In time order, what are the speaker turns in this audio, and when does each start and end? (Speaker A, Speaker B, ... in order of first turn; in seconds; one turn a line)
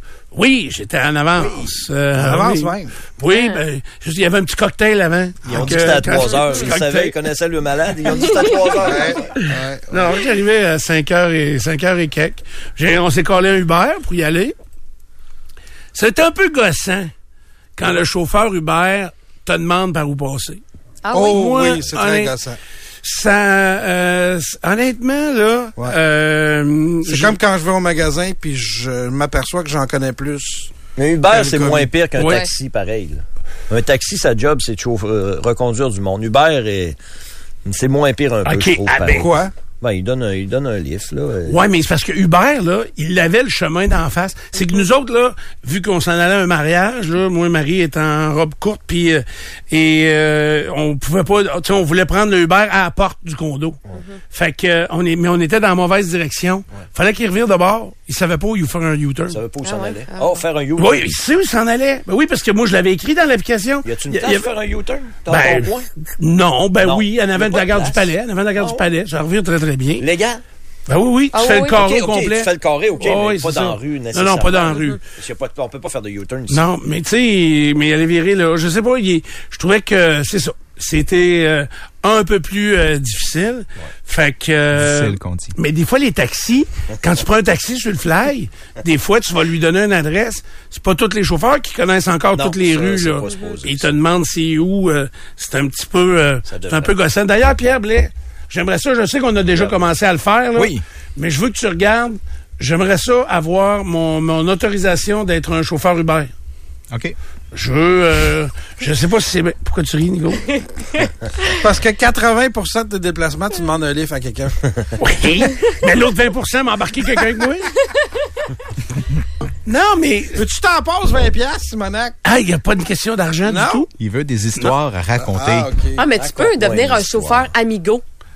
Speaker A: 0.3-7.2
Speaker B: 1.4-1.7
Speaker C: 2.1-2.9
Speaker D: 3.3-3.6
Speaker B: 5.5-9.3
Speaker C: 8.8-10.2
Speaker A: 9.9-14.5
Speaker A: 15.9-17.1
Speaker A: 17.8-20.6
Speaker D: 21.0-21.4
Speaker C: 21.1-22.6
Speaker A: 21.2-22.3
Speaker A: 23.0-27.4
Speaker C: 27.0-30.7
Speaker B: 30.9-37.0
Speaker C: 31.3-31.9
Speaker A: 32.2-32.4
Speaker D: 32.2-32.5
Speaker B: 37.6-39.3
Speaker A: 38.5-39.3
Speaker C: 39.1-39.5
Speaker B: 39.8-41.6
Speaker A: 41.5-53.8
Speaker A: 54.3-59.4
Speaker B: 59.3-61.0
Speaker D: 59.6-60.4
Speaker A: 60.8-64.5
Speaker B: 63.8-65.9
Speaker A: 65.3-70.0
Speaker B: 66.8-68.8
Speaker B: 70.0-70.4
Speaker A: 70.9-75.0
Speaker D: 71.3-71.8
Speaker B: 71.7-76.6
Speaker A: 76.5-106.3
Speaker E: 84.7-85.6
Speaker B: 92.3-93.9
Speaker B: 96.5-96.9
Speaker B: 99.5-99.8
Speaker E: 100.5-100.8
Speaker E: 106.9-107.2
Speaker A: 107.5-110.6
Speaker C: 111.5-114.6
Speaker A: 115.0-117.8
Speaker A: 119.7-120.4
Speaker C: 120.3-122.2
Speaker A: 122.2-123.9
Speaker C: 123.4-123.9
Speaker E: 124.0-125.7
Speaker C: 125.2-126.0
Speaker D: 126.0-128.0
Speaker B: 126.2-127.5